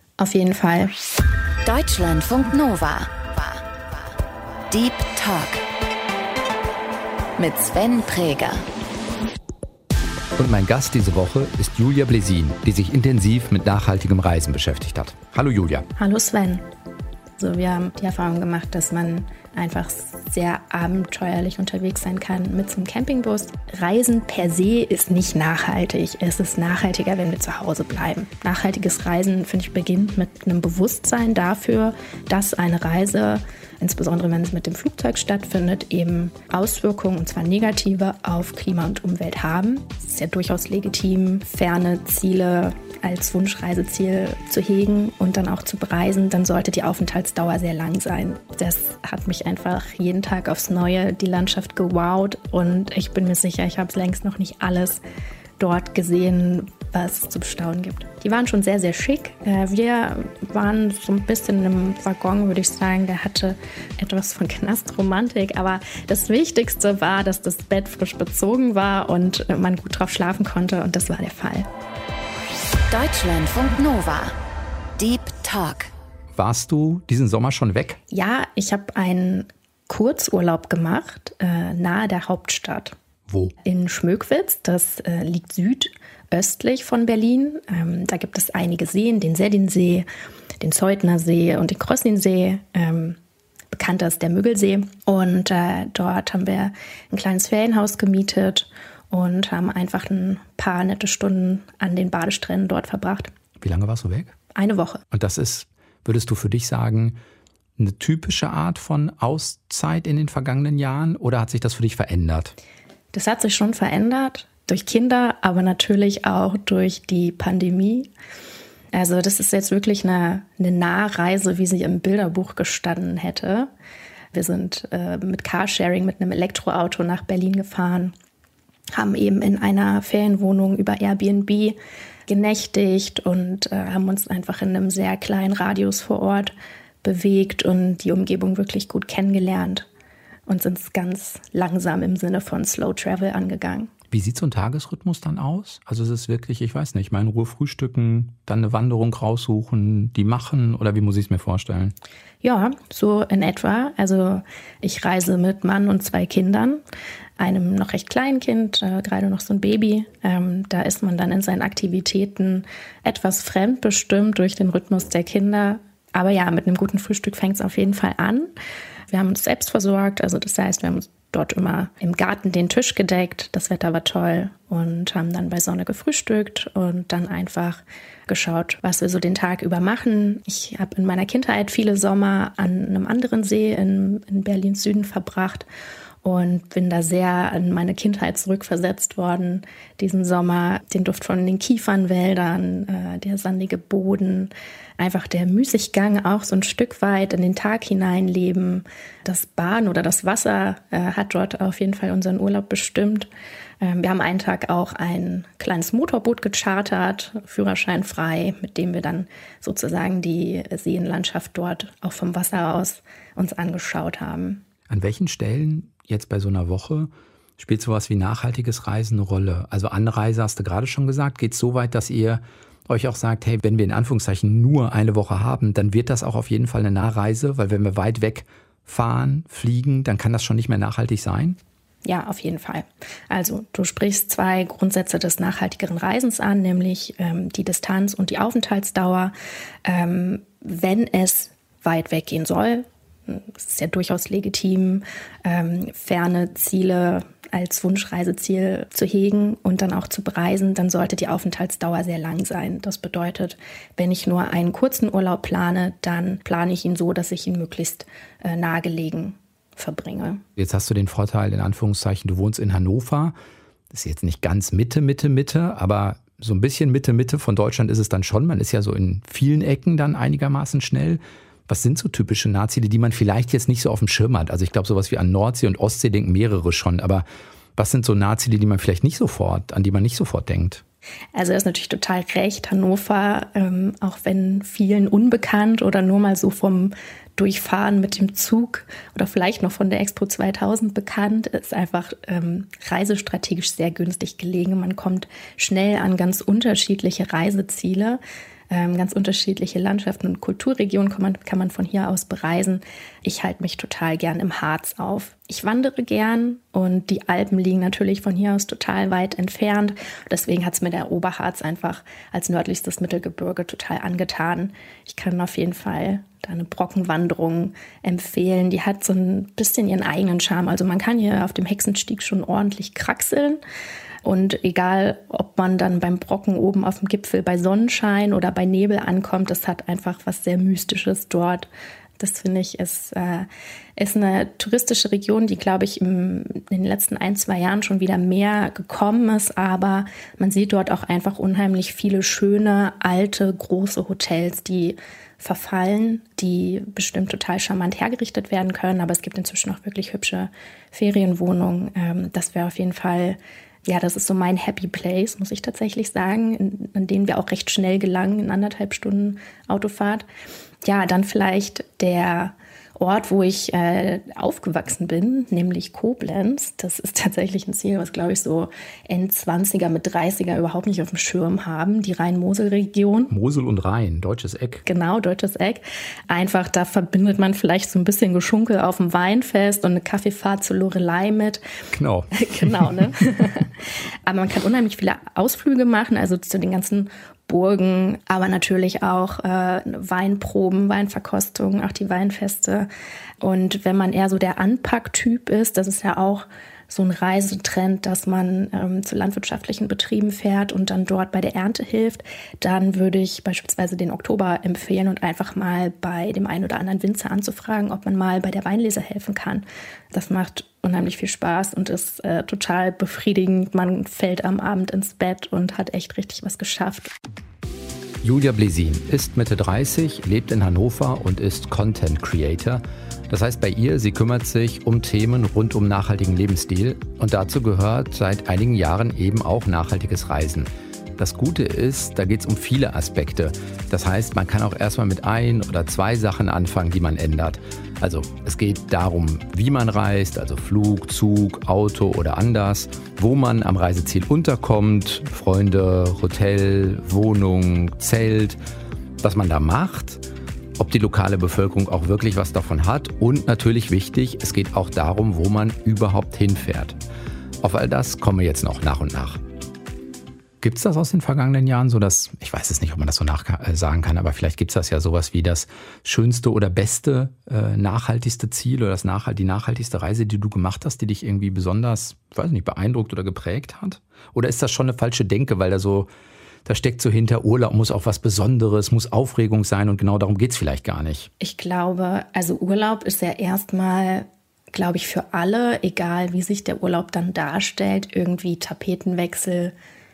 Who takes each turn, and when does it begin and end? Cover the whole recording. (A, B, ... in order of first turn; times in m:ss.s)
0:00.2-0:00.9 A
0:01.6-0:04.0 B
0:04.7-0:05.6 B
0:07.4-0:08.6 B
0:10.4-0:15.9 C
0:16.0-0:16.6 A
0:17.4-0:55.0 A
0:55.6-1:11.7 A
1:12.9-1:14.3 B
1:15.0-1:15.9 B
1:16.3-1:18.0 C
1:18.1-1:22.9 A
1:23.3-1:23.5 C
1:23.6-1:30.0 A
1:30.6-1:33.2 A
1:33.7-1:43.3 A
1:43.6-1:44.3 C
1:44.5-1:45.0 A
1:45.1-1:47.2 C
1:47.8-1:52.5 C
1:53.1-1:58.1 A
1:58.9-2:03.7 A
2:04.3-2:08.1 A
2:08.9-2:11.8 A
2:12.3-2:19.9 A
2:20.5-2:23.9 A
2:24.1-2:31.9 C
2:32.4-2:36.8 A
2:37.4-2:48.5 A
2:49.1-3:05.6 A
3:06.2-3:23.3 A
3:23.8-3:34.6 A
3:34.9-3:51.6 C
3:52.0-3:59.3 A
3:59.8-4:20.4 A
4:20.6-4:23.3 C
4:23.9-4:37.2 C
4:37.8-4:40.8 C
4:41.3-5:23.6 A
5:24.2-6:00.2 A
6:00.8-6:13.3 A
6:13.3-6:14.8 C
6:14.8-6:21.6 A
6:21.9-6:23.1 C
6:22.3-6:23.7 A
6:24.2-6:32.9 A
6:33.4-6:57.1 A
6:58.2-7:28.6 C
7:29.2-7:30.2 C
7:30.8-7:37.0 C
7:37.6-7:39.4 C
7:40.6-7:56.1 C
7:56.6-8:01.3 C
8:01.4-8:09.7 A